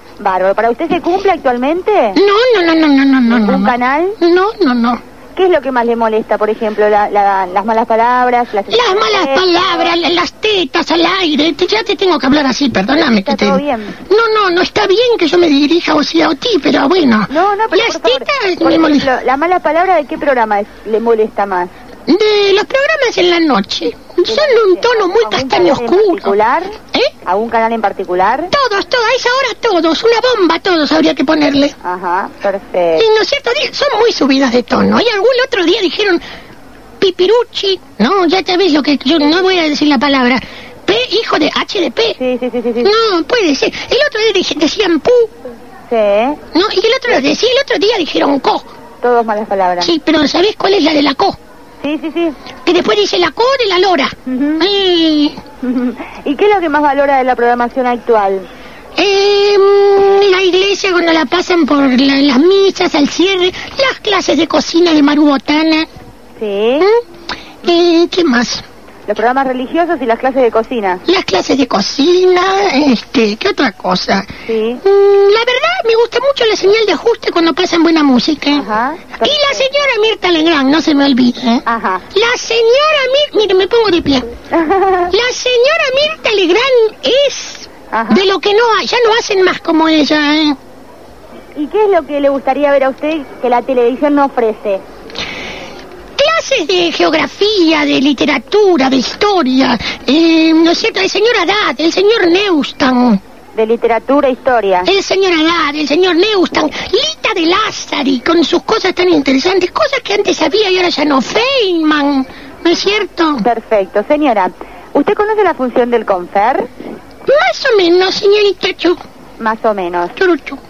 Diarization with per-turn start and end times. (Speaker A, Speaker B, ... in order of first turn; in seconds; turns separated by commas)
Speaker A: 0.2-2.2, Speaker B: 2.2-5.0, Speaker A: 3.3-4.2, Speaker A: 5.4-10.0, Speaker B: 8.7-19.1, Speaker A: 13.2-13.9, Speaker A: 17.3-21.7, Speaker B: 22.1-26.4, Speaker A: 24.3-26.7, Speaker A: 27.2-28.5, Speaker B: 28.5-31.7, Speaker A: 31.8-33.1, Speaker B: 33.0-36.2, Speaker B: 37.0-42.2, Speaker A: 42.2-43.0, Speaker B: 42.8-45.3, Speaker A: 45.9-46.4, Speaker B: 46.5-48.7, Speaker A: 49.0-49.9, Speaker B: 49.8-51.4, Speaker A: 51.8-52.4, Speaker B: 52.6-55.4, Speaker A: 54.3-54.7, Speaker A: 55.6-58.5, Speaker B: 59.0-65.9, Speaker A: 66.4-66.9, Speaker B: 67.6-68.6, Speaker A: 69.1-71.0, Speaker B: 71.1-74.3, Speaker A: 74.5-74.8, Speaker B: 74.8-84.3, Speaker A: 78.5-79.7, Speaker A: 81.7-82.0, Speaker A: 84.5-85.1, Speaker B: 85.1-90.6, Speaker A: 87.9-88.3, Speaker A: 91.6-94.8, Speaker B: 96.2-103.2, Speaker A: 103.5-104.9, Speaker B: 104.8-113.4, Speaker A: 112.9-116.7, Speaker B: 117.3-119.0, Speaker A: 119.4-120.2, Speaker B: 120.2-120.6